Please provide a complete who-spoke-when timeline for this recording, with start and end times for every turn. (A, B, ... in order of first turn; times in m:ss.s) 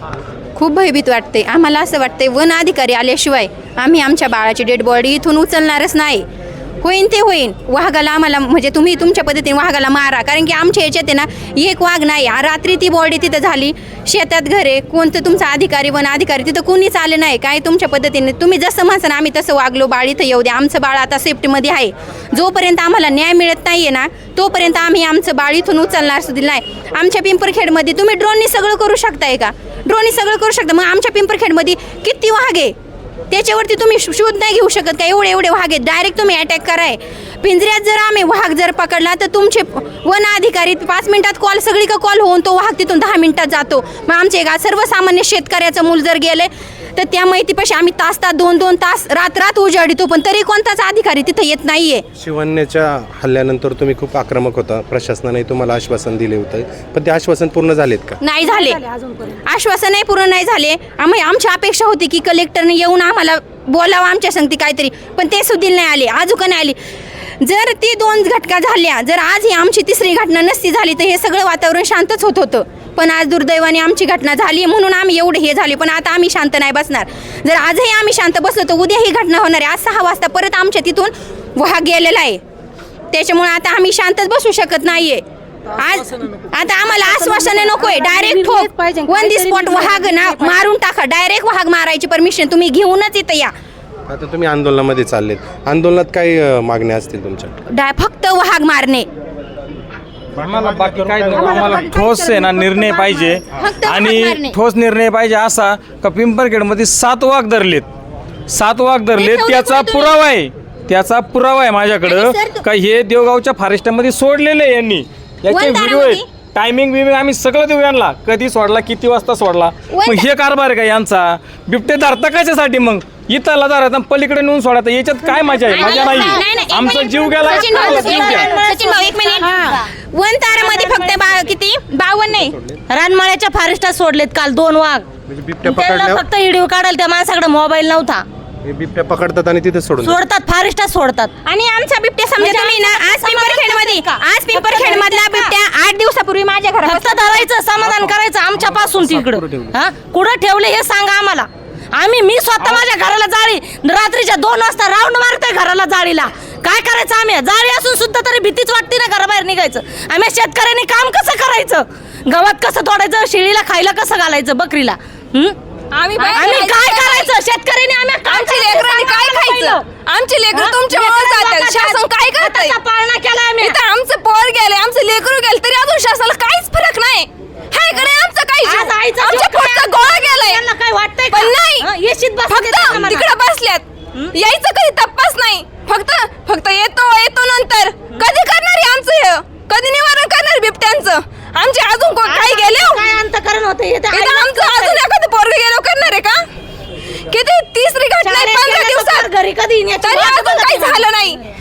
0:00.6-0:06.2 A
0:06.8-0:32.7 A
0:33.3-0:52.0 A
0:52.2-0:58.2 B
0:58.2-0:58.8 A
0:59.4-1:06.8 A
1:07.4-1:22.4 A
1:23.1-1:25.2 A
1:25.8-1:33.5 A
1:28.5-1:29.0 C
1:34.1-1:37.5 B
1:37.7-1:39.1 A
1:40.4-1:47.9 D
1:41.3-1:44.6 A
1:48.5-2:08.5 D
1:49.1-1:50.2 A
1:52.0-1:52.6 A
1:55.5-1:56.3 A
1:59.9-2:00.3 A
2:05.7-2:06.4 C
2:05.7-2:12.5 A
2:07.4-2:09.9 C
2:10.5-2:11.4 C
2:12.9-2:15.0 C
2:15.3-2:16.2 B
2:15.6-2:18.2 C
2:18.6-2:20.2 B
2:20.0-2:21.3 C
2:21.4-2:27.5 A
2:22.4-2:25.5 C
2:26.8-2:45.6 C
2:45.9-2:47.3 E
2:46.2-2:49.8 C
2:48.2-2:52.8 E
2:50.5-2:53.8 C
2:53.6-3:00.6 E
2:58.6-3:03.3 C
3:01.3-3:01.9 E
3:02.5-3:13.0 E
3:12.2-3:15.0 C
3:14.1-3:16.4 E
3:17.3-3:19.3 E
3:18.2-3:21.1 C
3:20.0-3:21.4 E